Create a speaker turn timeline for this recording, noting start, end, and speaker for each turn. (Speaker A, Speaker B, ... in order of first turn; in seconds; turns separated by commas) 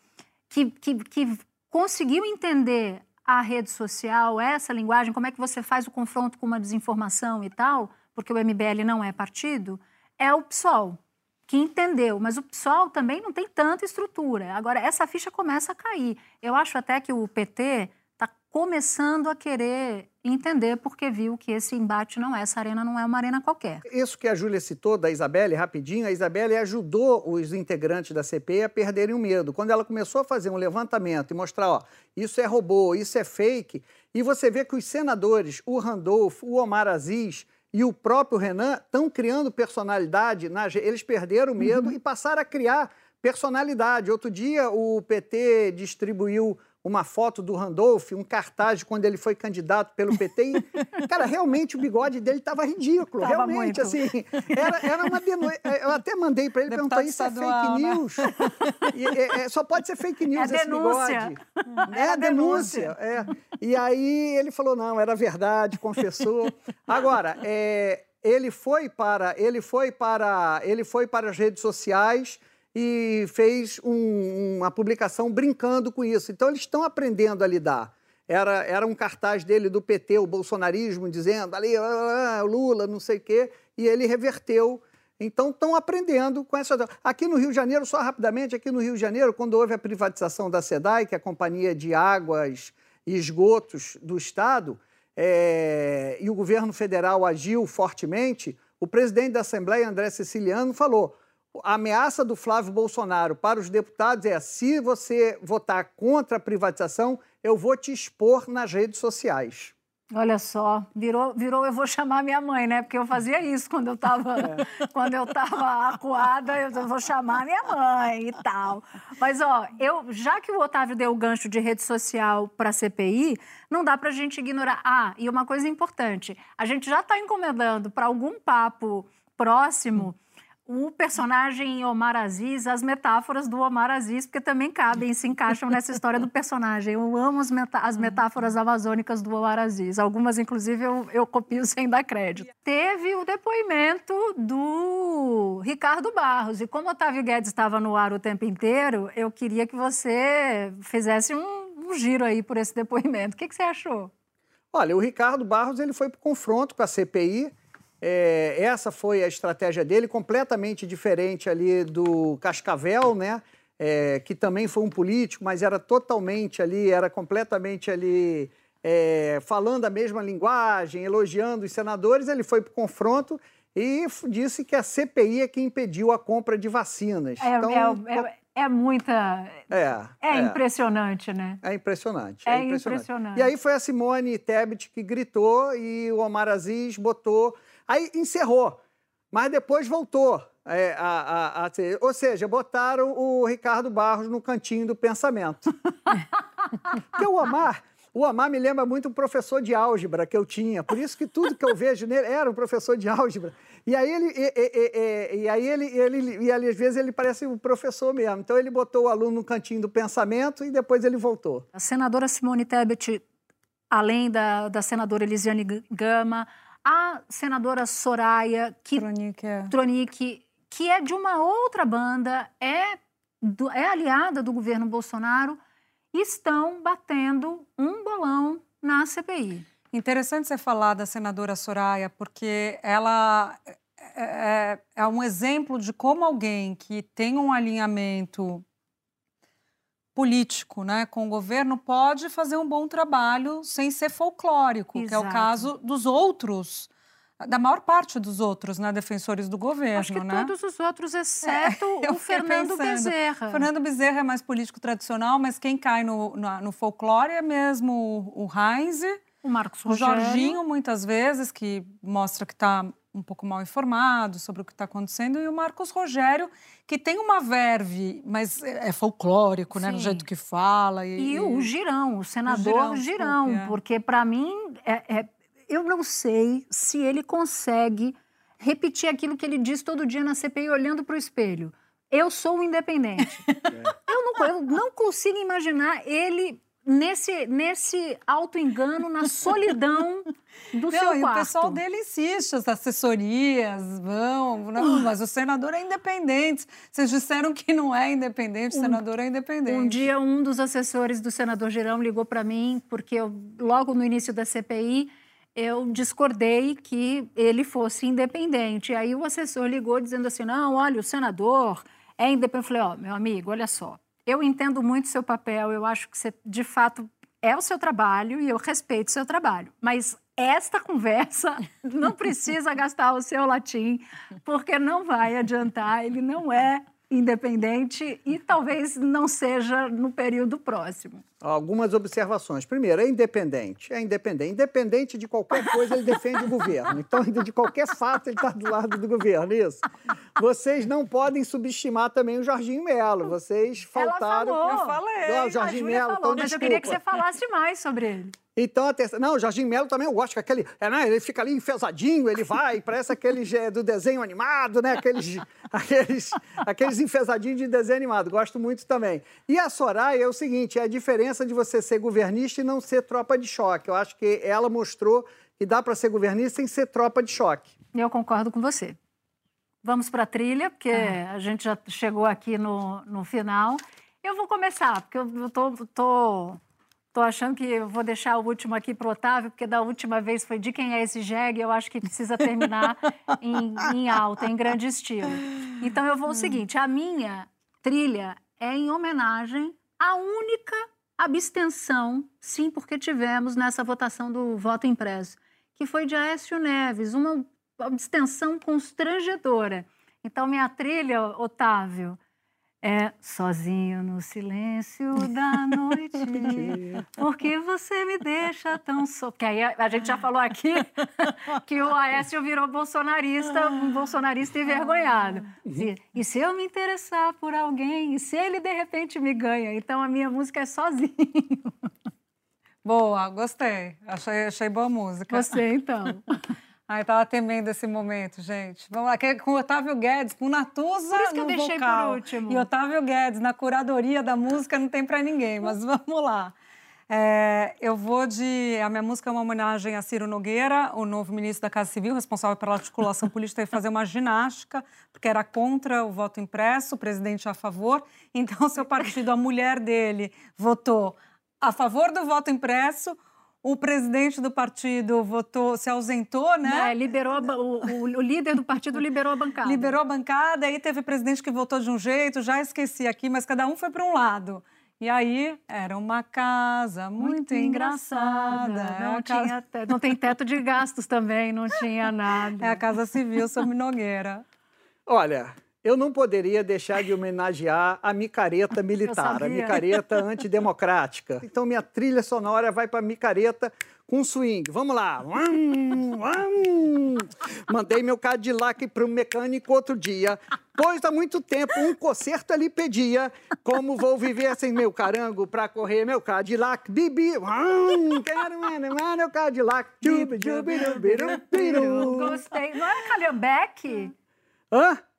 Speaker A: 0.5-23.8, Speaker B: 23.9-58.3, Speaker A: 53.2-54.8, Speaker C: 56.7-58.8, Speaker B: 58.9-109.7, Speaker A: 60.3-62.9, Speaker A: 110.1-154.1, Speaker B: 154.7-178.2, Speaker A: 177.4-181.6, Speaker B: 179.7-180.6, Speaker B: 181.6-188.8, Speaker A: 182.4-183.5, Speaker B: 189.3-195.7, Speaker B: 197.1-211.6, Speaker A: 211.7-213.2, Speaker A: 213.9-219.0, Speaker C: 218.9-219.7, Speaker A: 219.7-225.6, Speaker A: 226.1-229.7, Speaker C: 229.9-238.6, Speaker C: 240.1-246.9, Speaker A: 244.9-245.7, Speaker C: 247.4-250.5, Speaker A: 249.9-253.7, Speaker C: 251.4-259.2, Speaker A: 259.4-260.6, Speaker C: 259.9-271.7, Speaker A: 269.7-270.2, Speaker A: 271.2-291.8, Speaker C: 272.5-273.7, Speaker C: 283.5-283.7, Speaker C: 290.9-300.1, Speaker A: 298.7-299.0, Speaker A: 299.6-331.2, Speaker B: 331.4-339.8, Speaker B: 340.4-347.0, Speaker A: 343.9-345.0, Speaker C: 344.6-345.7, Speaker A: 345.5-348.3, Speaker B: 348.6-367.7, Speaker A: 367.9-369.0, Speaker A: 369.8-376.6, Speaker A: 377.1-402.2, Speaker A: 402.8-421.9, Speaker B: 406.5-407.0, Speaker C: 422.8-425.6, Speaker A: 425.3-426.3, Speaker C: 426.9-436.5, Speaker A: 431.1-432.7, Speaker C: 437.1-456.9, Speaker A: 456.6-460.0, Speaker C: 459.6-469.5, Speaker A: 467.2-472.8, Speaker C: 472.6-474.4, Speaker B: 475.1-502.4, Speaker A: 479.0-479.9, Speaker A: 500.0-504.1, Speaker B: 504.7-505.0